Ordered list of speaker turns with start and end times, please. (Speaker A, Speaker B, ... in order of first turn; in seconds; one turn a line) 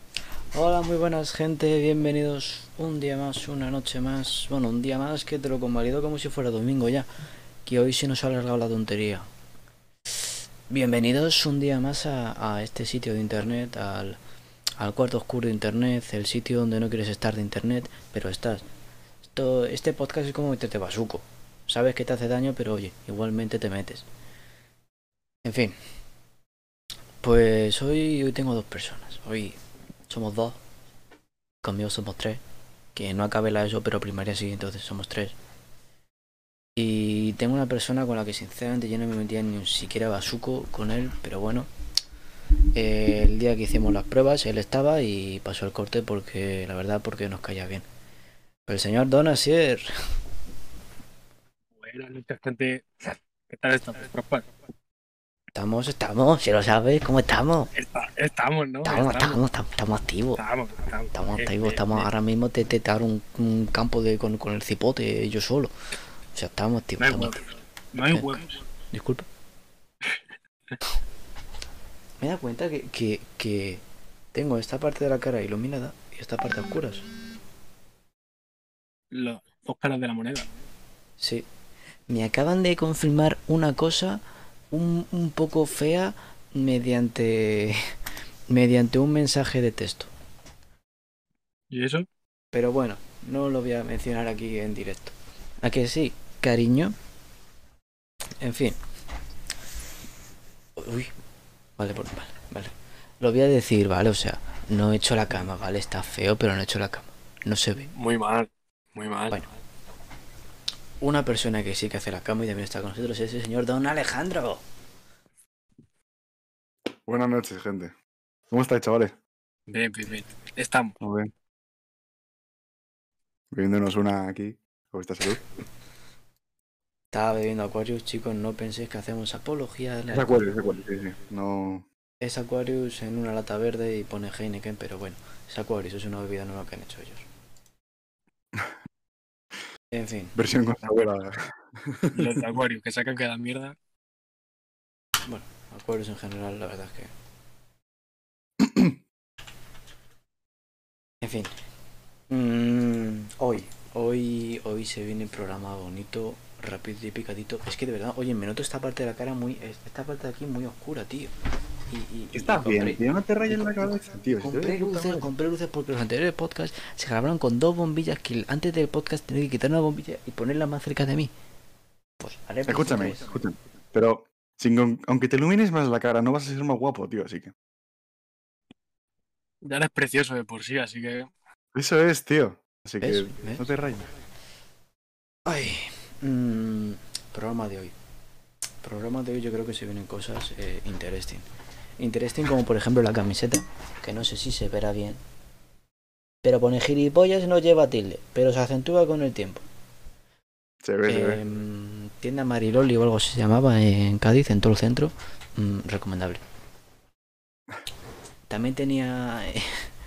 Speaker A: 0.5-7.1
Speaker A: 7.6-9.3
Speaker A: 10.7-14.2
Speaker A: 14.8-18.6
Speaker A: 19.3-24.1
Speaker A: 25.4-25.7
Speaker A: 27.2-30.6
Speaker A: 31.6-32.4
Speaker A: 32.9-35.4
Speaker A: 36.8-41.7
Speaker A: 42.7-47.9
Speaker A: 48.6-49.9
Speaker B: 51.8-54.5
Speaker A: 55.5-57.7
Speaker B: 57.7-59.4
Speaker A: 58.8-60.4
Speaker B: 60.4-62.1
Speaker A: 61.1-65.7
Speaker A: 66.3-67.3
Speaker B: 67.0-68.6
Speaker A: 68.1-68.4
Speaker A: 68.9-69.2
Speaker B: 70.0-70.8
Speaker A: 72.2-73.8
Speaker A: 74.3-77.0
Speaker B: 79.1-80.5
Speaker A: 81.2-81.5
Speaker A: 82.1-87.8
Speaker A: 88.5-90.1
Speaker B: 91.7-92.0
Speaker A: 92.5-96.9
Speaker A: 98.4-98.8
Speaker A: 100.8-101.1
Speaker A: 101.8-107.9
Speaker B: 107.9-109.4
Speaker A: 111.0-114.6
Speaker C: 117.0-117.9
Speaker C: 118.5-119.2
Speaker B: 119.7-121.0
Speaker C: 121.0-121.3
Speaker C: 123.5-125.4
Speaker A: 127.1-130.5
Speaker C: 130.1-131.8
Speaker A: 132.2-137.2
Speaker A: 139.9-140.4
Speaker C: 140.3-142.4
Speaker B: 142.1-143.7
Speaker A: 145.2-147.1
Speaker C: 148.6-149.0
Speaker A: 151.2-151.5
Speaker A: 152.3-161.3
Speaker A: 161.9-171.3
Speaker C: 162.3-165.3
Speaker A: 172.2-173.4
Speaker C: 172.7-177.5
Speaker B: 179.6-181.3
Speaker C: 181.7-184.1
Speaker A: 183.0-183.7
Speaker A: 185.4-187.9
Speaker A: 188.8-191.4
Speaker A: 192.0-195.2
Speaker A: 196.4-199.6
Speaker C: 200.8-201.4
Speaker A: 201.1-206.4
Speaker A: 208.5-209.9